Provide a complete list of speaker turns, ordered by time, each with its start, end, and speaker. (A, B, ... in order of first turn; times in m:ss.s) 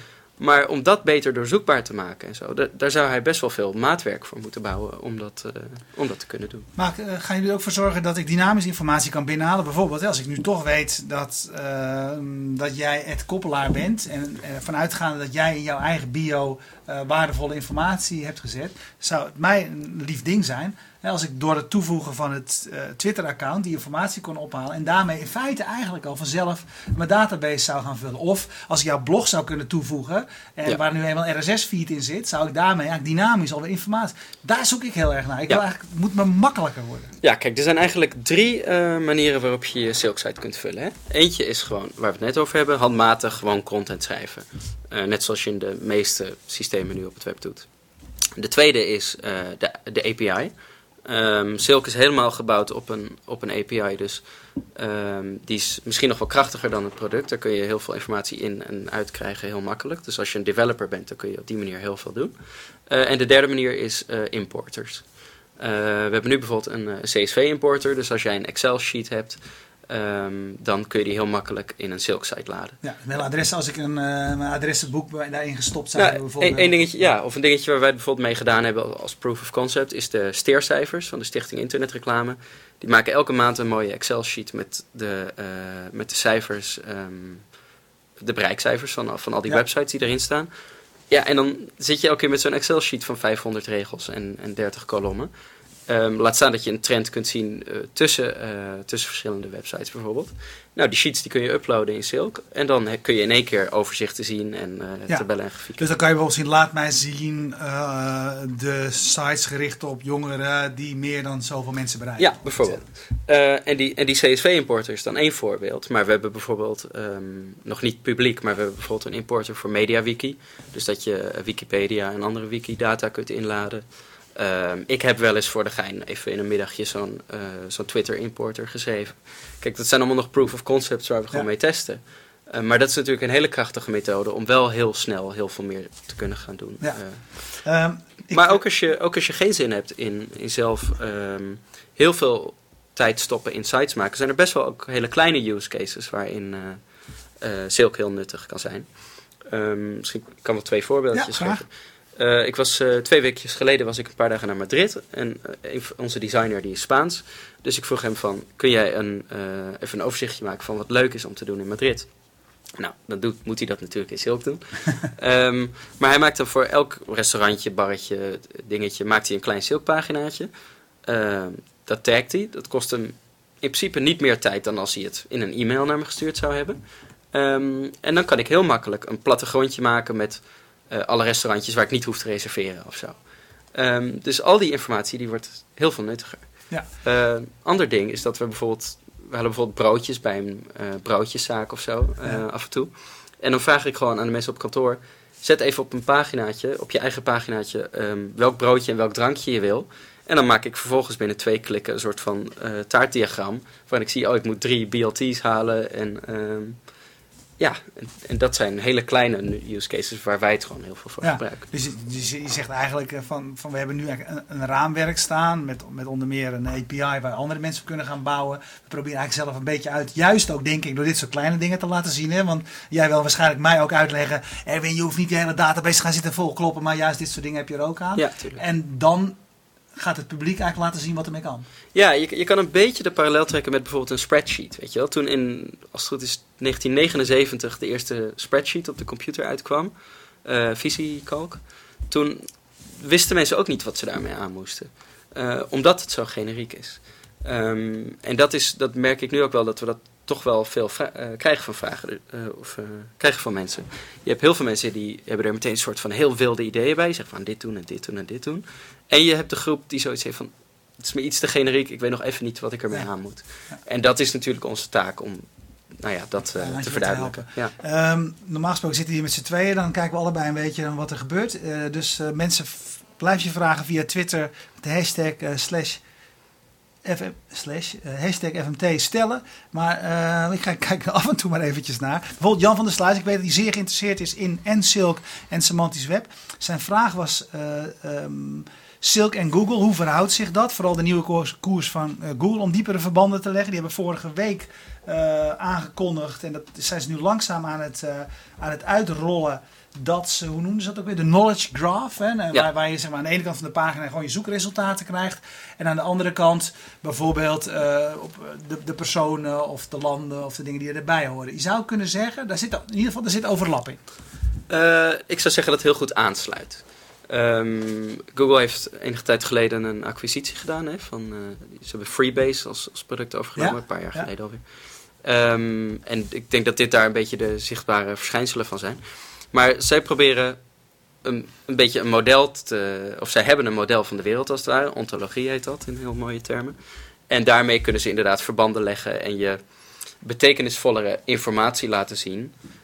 0:00.4-0:06.7 A
0:06.8-0:37.1 B
0:37.2-0:47.7 A
0:48.4-0:50.5 A
0:51.0-0:54.2 A
0:54.8-1:02.3 A
1:02.9-1:12.8 A
1:12.8-1:16.8 B
1:16.0-1:27.5 A
1:28.2-1:30.5 A
1:31.1-1:35.3 A
1:35.9-1:45.9 A
1:45.1-1:52.8 B
1:52.2-2:17.6 A
2:16.8-2:18.6 B
2:18.3-2:26.8 A
2:27.4-2:28.9 A
2:29.4-2:42.1 A
2:31.1-2:31.6 B
2:42.8-2:50.5 A
2:51.0-2:56.8 A
2:57.3-3:03.2 A
3:03.7-3:26.8 A
3:27.6-3:31.6 A
3:31.2-3:49.4 B
3:48.1-3:48.6 A
3:49.9-3:51.6 B
3:51.9-3:59.9 A
4:00.4-4:27.8 A
4:26.6-4:36.0 B
4:37.0-5:14.0 B
5:14.7-5:24.6 A
5:23.6-5:24.3 B
5:25.2-5:29.0 A
5:29.5-5:30.6 A
5:31.2-5:36.8 A
5:37.3-5:39.6 A
5:40.2-5:42.5 A